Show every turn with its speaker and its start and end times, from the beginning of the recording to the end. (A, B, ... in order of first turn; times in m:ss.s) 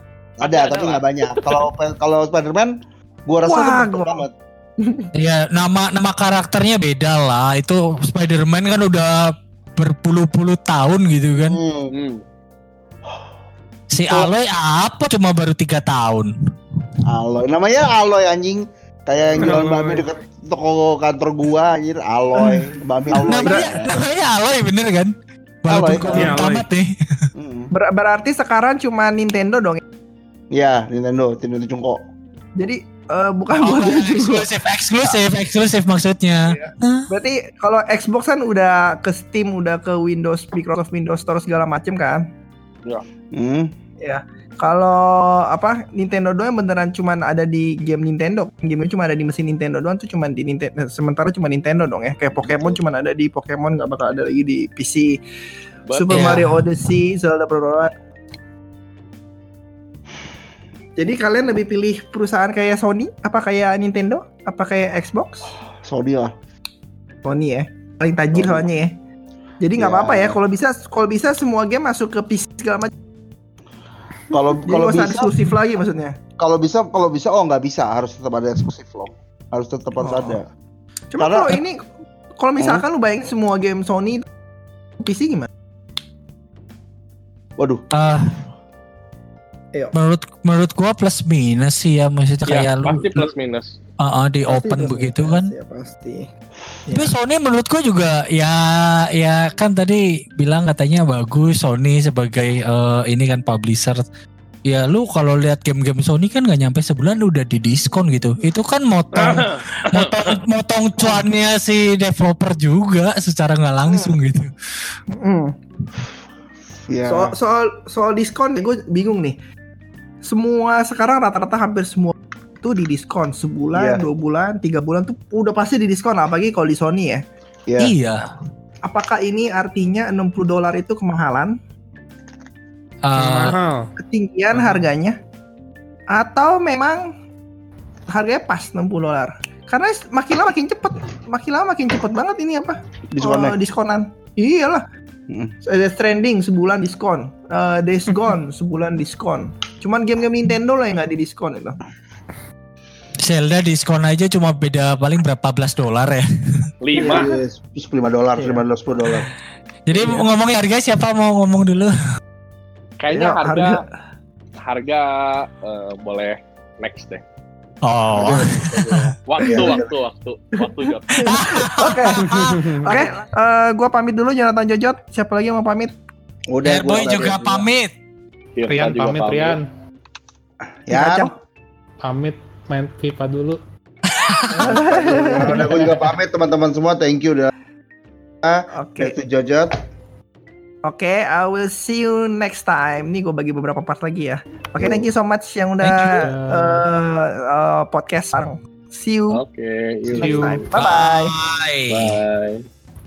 0:00.4-0:02.7 A
0:00.4-0:01.6 B
0:03.3-0:04.3 A
0:03.4-0:04.2 C
0:04.8-0:05.1 C
0:05.2-0:11.6 D
0:11.4-0:11.9 A
0:11.9-0:12.2 B
0:13.9-0:16.3 D
0:17.0-0:24.0 A
0:19.4-0:20.1 E
0:23.2-0:26.9 D
0:23.2-0:23.7 C
0:25.7-0:26.4 A
0:26.1-0:26.6 E
0:27.3-0:27.7 A
0:27.7-0:29.8 C
0:30.5-0:32.0 A
0:32.6-0:34.4 C
0:33.6-0:37.1 D
0:36.4-0:42.3 C
0:43.3-0:43.7 A
0:44.0-0:55.2 C
0:52.4-0:52.8 A
0:55.9-0:56.4 B
0:55.9-0:57.9 C
0:56.1-0:56.6 D
1:01.0-1:05.5 C
1:05.8-1:06.3 A
1:07.2-1:08.9 C
1:08.3-1:08.7 A
1:09.6-1:12.9 C
1:09.8-1:10.4 A
1:14.3-1:15.4 A
1:14.6-1:16.2 C
1:16.4-1:20.4 A
1:20.0-1:20.4 C
1:21.1-1:21.8 C
1:21.2-1:21.6 A
1:22.4-1:24.2 C
1:22.6-1:22.8 A
1:25.0-1:25.5 C
1:27.6-1:27.8 A
1:27.9-1:28.4 D
1:29.9-1:33.3 D
1:32.5-1:33.8 B
1:34.0-1:35.5 D
1:34.5-1:36.3 C
1:36.8-1:37.1 C
1:36.9-1:44.0 D
1:44.6-1:54.5 D
1:49.1-1:50.4 B
1:51.0-1:51.2 C
1:53.9-1:54.1 C
1:55.1-1:55.5 C
1:56.9-1:57.3 A
1:57.1-1:59.4 C
2:00.2-2:07.2 C
2:03.7-2:04.0 A
2:07.7-2:07.9 A
2:07.8-2:08.3 D
2:08.8-2:11.5 C
2:13.0-2:13.5 D
2:13.1-2:13.9 E
2:14.0-2:15.2 C
2:14.5-2:14.8 E
2:16.1-2:17.1 C
2:18.1-2:24.8 C
2:23.1-2:23.6 A
2:25.3-2:25.5 A
2:25.6-2:31.8 C
2:33.2-2:36.2 D
2:36.8-2:37.3 B
2:36.9-2:37.4 C
2:36.9-2:39.3 A
2:38.4-2:38.6 C
2:39.9-2:41.9 D
2:39.9-2:40.2 B
2:43.0-2:43.8 B
2:43.1-2:43.8 C
2:44.6-2:47.2 B
2:47.8-2:49.0 D
2:48.1-2:49.9 A
2:49.3-2:51.3 B
2:51.1-2:55.9 C
2:51.2-2:52.7 D
2:52.2-2:53.0 E
2:56.5-2:57.6 A
2:56.6-2:57.9 D
2:58.6-2:59.6 B
2:58.7-2:59.7 E
3:00.8-3:01.3 A
3:00.9-3:01.3 C
3:02.0-3:03.6 E
3:04.1-3:04.8 D
3:04.5-3:05.7 C
3:04.6-3:07.5 A
3:05.4-3:06.0 E
3:08.4-3:09.7 A
3:08.7-3:09.1 C
3:10.8-3:19.4 C
3:14.8-3:15.1 A
3:15.8-3:16.8 E
3:19.3-3:20.6 B
3:20.1-3:20.6 E
3:20.1-3:21.3 C
3:20.7-3:22.2 D
3:21.9-3:22.6 B